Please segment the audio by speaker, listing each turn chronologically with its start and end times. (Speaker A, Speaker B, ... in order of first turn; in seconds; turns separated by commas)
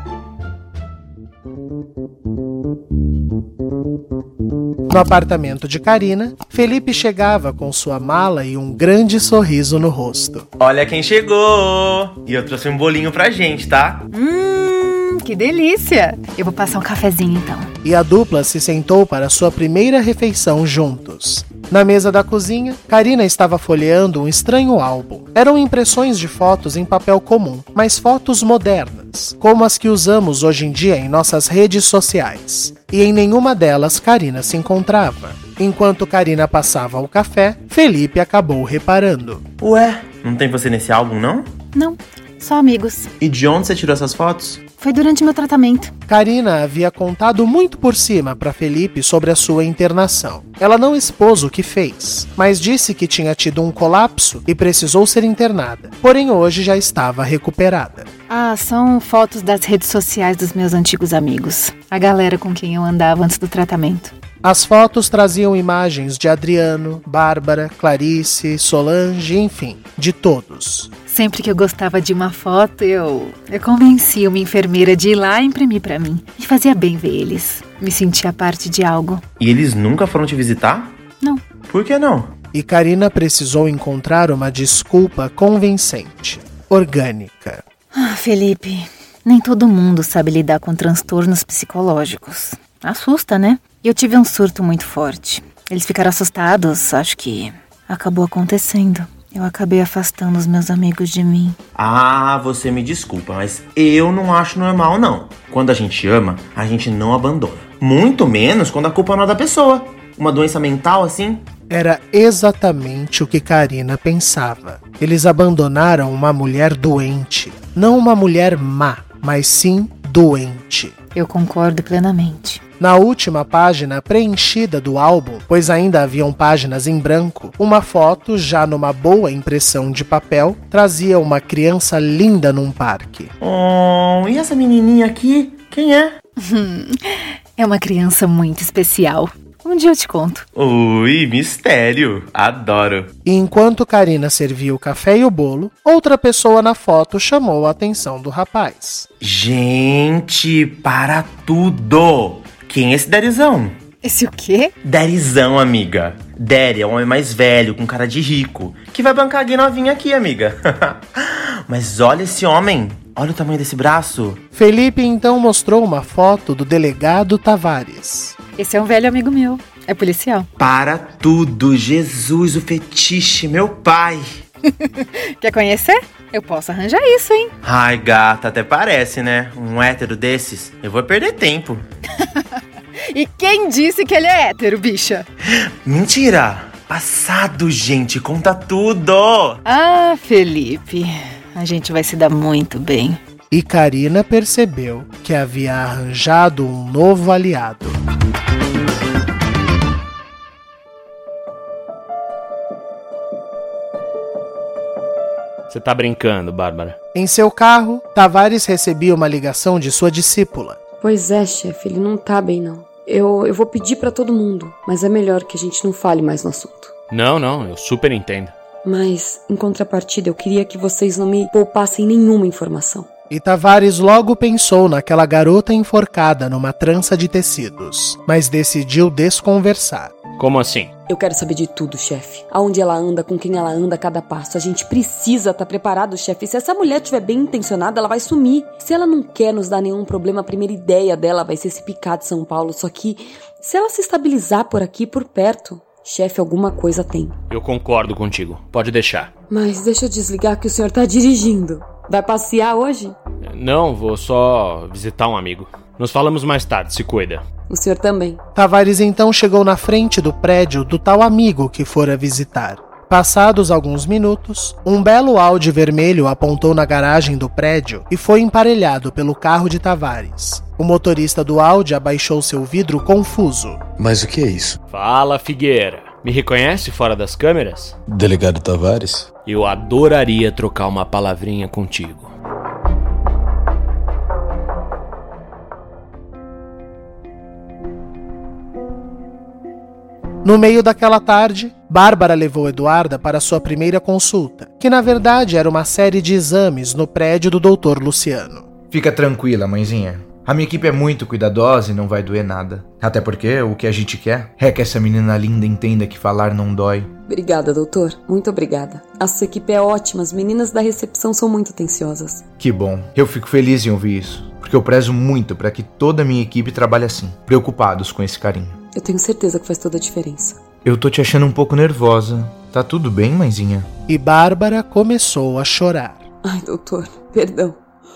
Speaker A: 4.9-10.4, Speaker B: 10.6-14.1, Speaker C: 14.1-17.7, Speaker A: 17.8-39.4, Speaker B: 39.6-41.5, Speaker C: 41.7-43.1, Speaker B: 43.2-44.7, Speaker C: 44.7-45.9, Speaker A: 46.1-58.1, Speaker C: 58.3-64.1, Speaker A: 64.4-70.9, Speaker C: 71.1-79.2, Speaker B: 79.4-81.0, Speaker B: 81.5-82.3, Speaker A: 82.5-87.6, Speaker C: 87.9-101.6, Speaker B: 101.7-111.5, Speaker A: 111.7-120.9, Speaker C: 121.1-122.6, Speaker A: 122.8-133.3, Speaker B: 133.4-136.2, Speaker C: 136.4-140.4, Speaker B: 140.5-143.1, Speaker A: 143.2-149.1, Speaker B: 149.2-153.8, Speaker C: 154.0-154.7, Speaker B: 154.8-164.4, Speaker A: 164.5-168.3, Speaker C: 168.6-170.5, Speaker B: 170.6-174.4, Speaker C: 174.7-177.5, Speaker B: 177.6-181.8, Speaker C: 182.2-182.6, Speaker C: 183.1-185.2, Speaker B: 185.5-189.6, Speaker C: 189.6-193.2, Speaker A: 193.5-198.0, Speaker D: 205.7-206.9, Speaker A: 207.1-210.8, Speaker E: 211.0-216.9, Speaker D: 217.1-218.5, Speaker E: 218.8-223.1, Speaker A: 223.3-230.1, Speaker D: 230.4-230.9, Speaker E: 231.1-247.3, Speaker D: 247.5-249.3, Speaker E: 249.5-253.2, Speaker D: 253.4-257.4, Speaker E: 257.7-258.4, Speaker A: 258.5-273.8, Speaker F: 274.0-274.8, Speaker D: 274.9-277.9, Speaker F: 278.1-279.3, Speaker D: 279.4-282.3, Speaker A: 290.4-298.7, Speaker G: 298.9-307.1, Speaker E: 307.2-312.4, Speaker G: 312.6-318.8, Speaker E: 318.9-320.6, Speaker G: 320.8-323.9, Speaker A: 324.1-326.3, Speaker E: 326.4-327.8